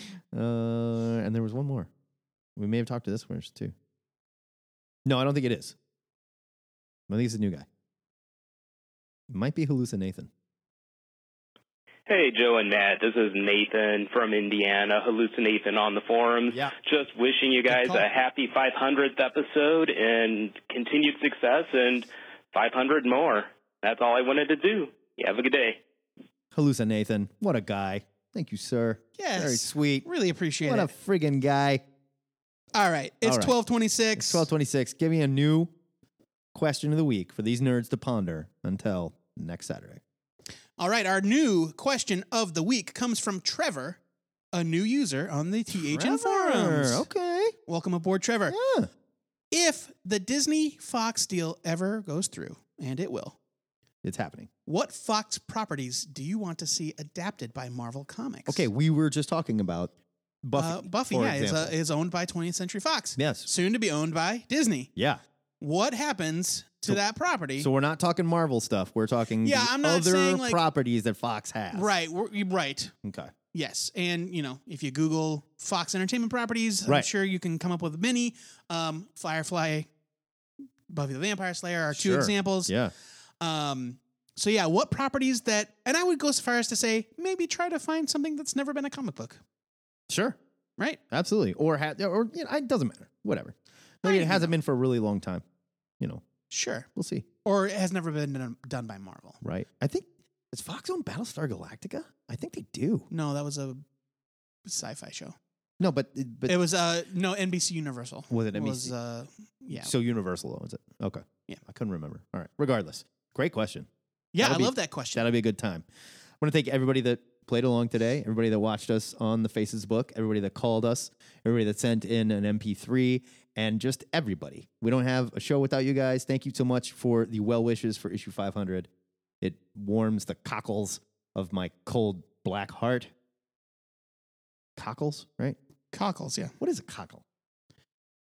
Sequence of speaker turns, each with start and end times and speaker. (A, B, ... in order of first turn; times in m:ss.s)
0:00.3-0:01.9 A
0:02.6-0:03.7 A
0:05.0-0:05.8 A
0:07.1-0:07.7 A
0:09.3-0:10.3 A
0:12.1-0:25.8 B
0:17.7-0:18.1 C
0:26.5-0:30.1 A
0:29.2-0:30.9 C
0:30.6-0:31.8 A
0:32.8-0:34.5 C
0:33.2-0:33.6 A
0:34.2-0:35.7 A
0:36.6-0:40.0 A
0:40.8-0:44.0 C
0:44.5-0:47.0 C
0:45.8-0:47.6 A
0:47.7-0:48.6 C
0:48.5-0:48.9 A
0:49.5-0:53.4 C
0:54.0-0:54.5 A
0:54.7-0:58.7 C
0:58.5-0:59.9 A
1:00.4-1:01.8 A
1:00.6-1:04.9 C
1:03.2-1:03.5 A
1:05.0-1:05.2 A
1:05.6-1:07.7 C
1:07.6-1:11.9 A
1:09.4-1:10.6 C
1:11.7-1:12.9 C
1:13.0-1:13.3 A
1:13.5-1:19.9 C
1:20.9-1:22.8 C
1:21.9-1:22.9 A
1:23.4-1:29.4 C
1:30.1-1:30.4 A
1:31.1-1:35.4 A
1:34.0-1:34.5 C
1:36.0-1:36.3 A
1:36.5-1:36.9 C
1:36.9-1:37.3 A
1:37.4-1:39.4 C
1:39.4-1:43.1 A
1:43.1-1:43.8 C
1:44.7-1:45.4 C
1:45.8-1:46.6 A
1:46.5-1:49.9 C
1:48.3-1:48.9 A
1:49.8-1:53.9 A
1:54.3-1:55.3 C
1:54.4-1:55.8 A
1:56.4-2:08.9 A
2:09.4-2:13.1 A
2:14.8-2:15.6 A
2:15.9-2:16.5 C
2:16.6-2:17.2 A